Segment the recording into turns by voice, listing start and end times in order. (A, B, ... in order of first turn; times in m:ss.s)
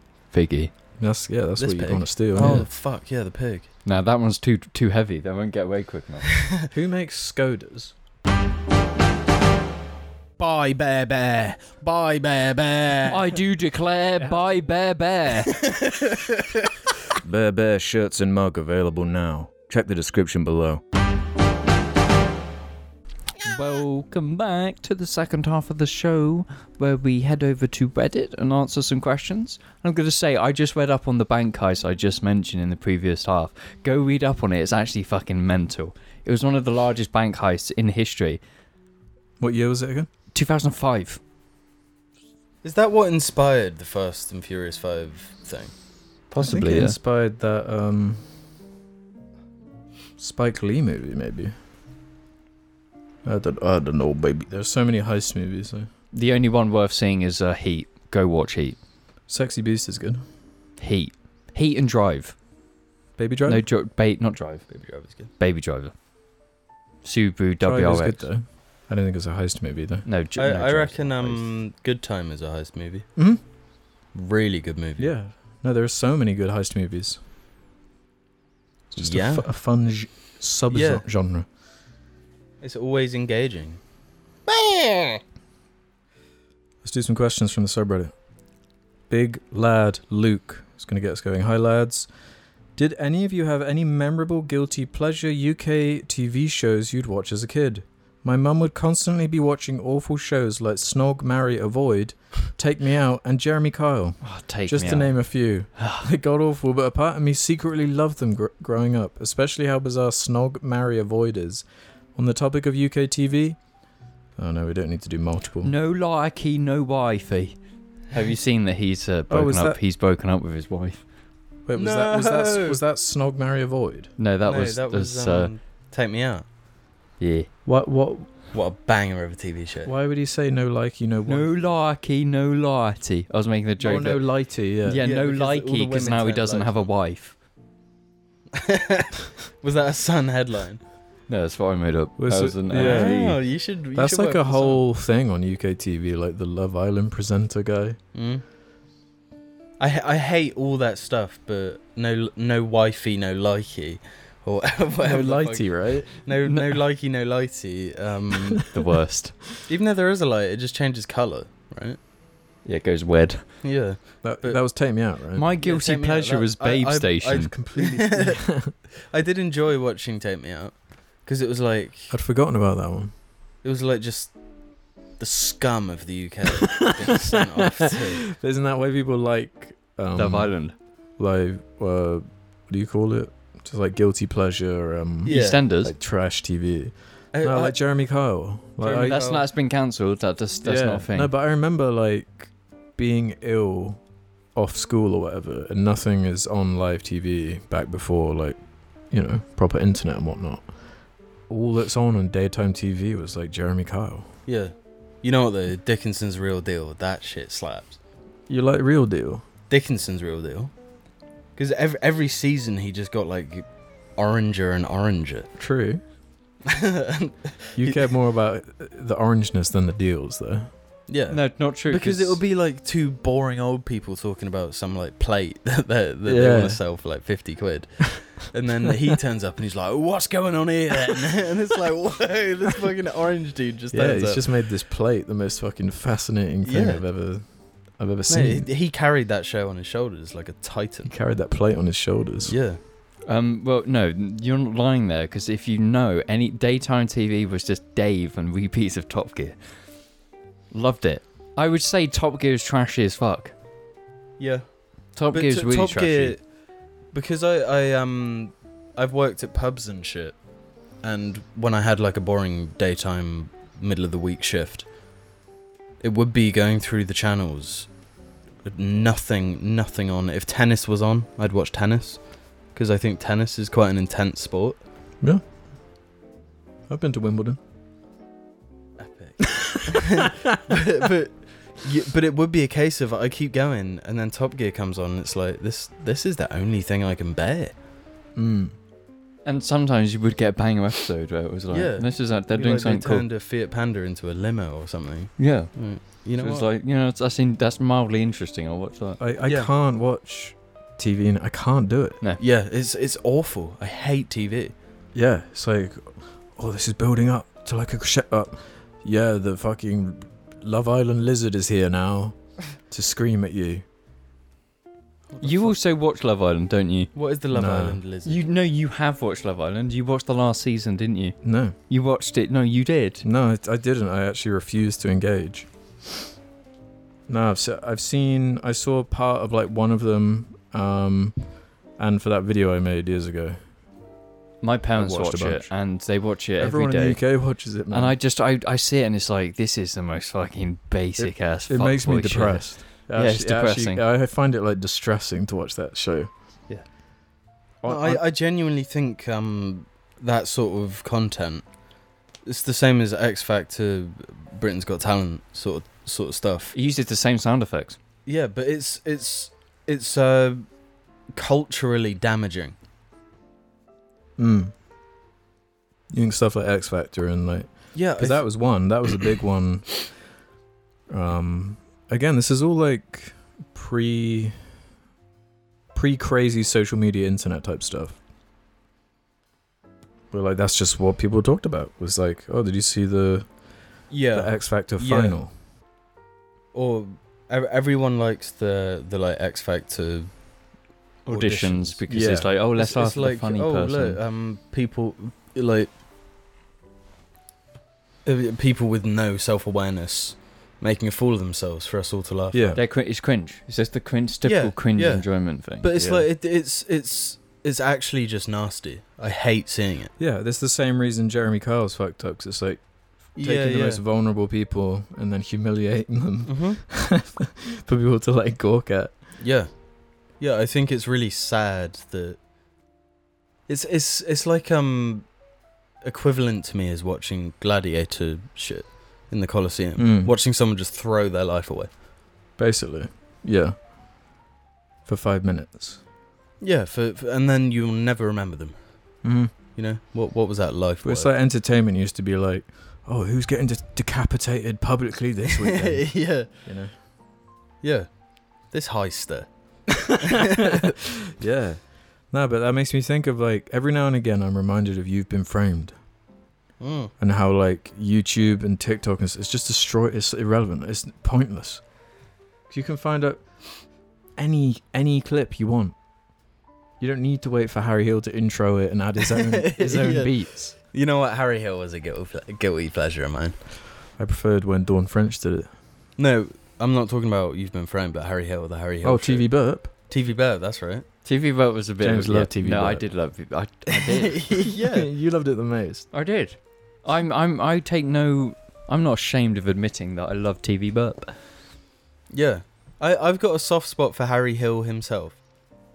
0:00.3-0:00.7 A
0:01.0-0:02.7 B
0:01.6-0:03.7 C
0:02.4-0:02.6 A
0:03.8-0:06.3 A
0:06.3-0:06.7 C
0:06.7-0:07.9 B
0:10.4-0:13.3 C
0:13.1-0:15.6 A
0:15.5-0:16.7 C
0:17.2-0:20.8 B
0:23.4-0:38.4 A
0:39.4-0:40.1 B
0:40.3-0:41.2 A
0:42.6-0:45.7 C
0:46.3-0:46.9 A
0:46.4-0:48.3 B
0:50.2-0:51.5 B
0:53.2-0:55.9 B
0:56.1-0:58.8 A
0:59.3-1:00.2 B
1:00.8-1:02.4 A
1:03.2-1:03.6 B
1:03.4-1:04.7 A
1:04.7-1:05.3 C
1:05.4-1:05.9 A
1:07.0-1:08.2 A
1:07.6-1:10.0 B
1:10.0-1:11.4 A
1:10.4-1:13.1 C
1:13.2-1:13.4 B
1:14.1-1:15.1 C
1:15.0-1:17.2 B
1:18.9-1:19.4 C
1:19.0-1:21.5 B
1:20.7-1:21.0 C
1:22.6-1:23.8 C
1:24.4-1:25.2 C
1:26.8-1:28.1 B
1:29.1-1:32.1 B
1:32.8-1:53.6 B
1:44.2-1:45.2 A
1:45.8-1:46.0 A
1:54.4-1:55.7 B
1:55.6-1:57.6 A
1:58.1-2:01.0 A
1:59.3-1:59.8 B
2:01.6-2:04.1 B
2:01.8-2:02.8 C
2:04.2-2:05.5 A
2:04.4-2:06.4 C
2:07.2-2:07.5 A
2:07.6-2:08.3 B
2:08.5-2:09.9 C
2:09.8-2:11.5 B
2:11.3-2:14.3 A
2:13.8-2:15.0 B
2:14.8-2:17.3 A
2:15.0-2:16.9 C
2:18.5-2:20.8 C
2:21.3-2:23.4 A
2:22.2-2:23.4 B
2:22.7-2:24.8 C
2:23.9-2:28.0 B
2:28.1-2:28.4 C
2:29.8-2:38.7 C
2:35.0-2:36.1 B
2:36.4-2:36.7 A
2:38.3-2:38.6 B
2:38.7-2:39.4 A
2:39.6-2:42.0 C
2:42.6-2:43.4 A
2:43.6-2:44.6 C
2:44.2-2:45.4 B
2:45.3-2:47.5 A
2:45.6-2:48.5 C
2:47.5-2:48.7 B
2:49.1-2:52.1 C
2:52.1-2:53.1 B
2:53.6-2:54.3 C
2:55.2-2:58.3 C
2:56.6-3:00.5 B
3:00.1-3:00.7 A
3:01.2-3:09.2 B
3:05.2-3:05.6 C
3:05.3-3:05.9 A
3:07.3-3:07.8 C
3:08.8-3:09.4 C
3:08.9-3:11.3 A
3:10.6-3:14.0 B
3:14.5-3:18.6 B
3:19.1-3:20.7 B
3:21.5-3:24.3 B
3:24.5-3:28.0 C
3:28.5-3:29.4 B
3:29.7-3:30.7 C
3:31.6-3:33.6 C
3:34.2-3:35.5 C
3:35.6-3:36.0 B
3:36.6-3:38.1 C
3:37.8-3:40.7 B
3:41.1-3:54.4 C
3:41.3-3:42.4 A
3:46.2-3:46.8 B
3:53.9-3:57.4 B
3:56.6-3:57.0 C
3:58.0-3:58.7 B
3:58.3-4:01.1 C
4:01.0-4:02.5 B
4:02.4-4:02.8 C
4:03.3-4:09.6 A
4:10.7-4:13.5 A
4:14.4-4:14.6 C
4:15.2-4:16.4 A
4:15.3-4:16.4 C
4:17.1-4:20.4 C
4:21.0-4:24.8 C
4:26.0-4:27.9 C
4:28.6-4:32.2 C
4:32.7-4:34.8 C
4:36.9-4:37.6 B
4:39.0-4:47.7 C
4:39.5-4:40.7 B
4:48.4-4:48.7 B
4:49.4-4:53.2 A
4:51.7-4:56.6 C
4:55.4-4:59.2 A
4:59.2-5:02.2 B
4:59.4-4:59.7 C
5:02.4-5:04.7 C
5:05.1-5:13.8 B
5:15.3-5:15.8 C
5:15.4-5:17.1 A
5:17.1-5:18.4 C
5:17.5-5:18.0 B
5:18.2-5:21.4 A
5:21.4-5:21.7 B
5:21.9-5:23.2 A
5:23.2-5:25.7 B
5:27.3-5:31.4 B
5:32.0-5:33.6 B
5:34.6-5:37.2 A
5:35.0-5:35.7 B
5:36.6-5:38.2 B
5:37.9-5:44.0 A
5:41.2-5:46.3 B
5:47.8-5:48.2 B
5:47.8-5:51.6 C
5:52.4-5:56.7 C
5:56.7-5:58.0 A
5:58.2-6:00.6 C
6:01.3-6:02.8 C
6:04.4-6:04.7 B
6:06.1-6:10.1 B
6:07.9-6:08.4 C
6:11.1-6:14.6 B
6:15.9-6:18.2 B
6:20.3-6:23.5 B
6:24.1-6:25.4 C
6:24.3-6:25.5 B
6:26.7-6:30.3 C
6:31.2-6:32.0 C
6:31.3-6:34.2 A
6:32.1-6:32.5 B
6:32.7-6:35.9 C
6:38.2-6:42.8 C
6:42.5-6:42.8 B
6:42.7-6:46.2 A
6:44.4-6:50.1 C
6:50.2-6:59.2 B
6:53.4-6:54.0 C
6:56.4-6:56.8 C
6:59.4-6:59.7 C
7:00.4-7:02.4 C
7:03.7-7:05.3 C
7:06.0-7:11.9 C
7:10.0-7:10.3 B
7:12.6-7:13.7 B
7:15.0-7:16.0 B
7:16.6-7:18.8 C
7:19.2-7:19.5 B
7:19.7-7:21.3 C
7:21.0-7:26.9 B
7:25.6-7:26.5 C
7:27.8-7:28.1 C
7:28.7-7:30.9 C
7:30.0-7:35.9 B
7:36.8-7:37.1 C
7:37.2-7:41.8 B
7:42.7-7:43.4 B
7:44.4-7:46.0 B
7:47.0-7:50.7 B
7:49.3-7:53.6 C
7:54.2-7:55.7 B
7:56.2-7:59.5 C
7:59.0-7:59.9 B
8:00.1-8:01.0 C
8:01.2-8:04.4 A
8:02.0-8:03.0 B
8:04.0-8:05.1 C
8:04.7-8:06.1 B
8:06.1-8:11.3 A
8:12.3-8:15.4 C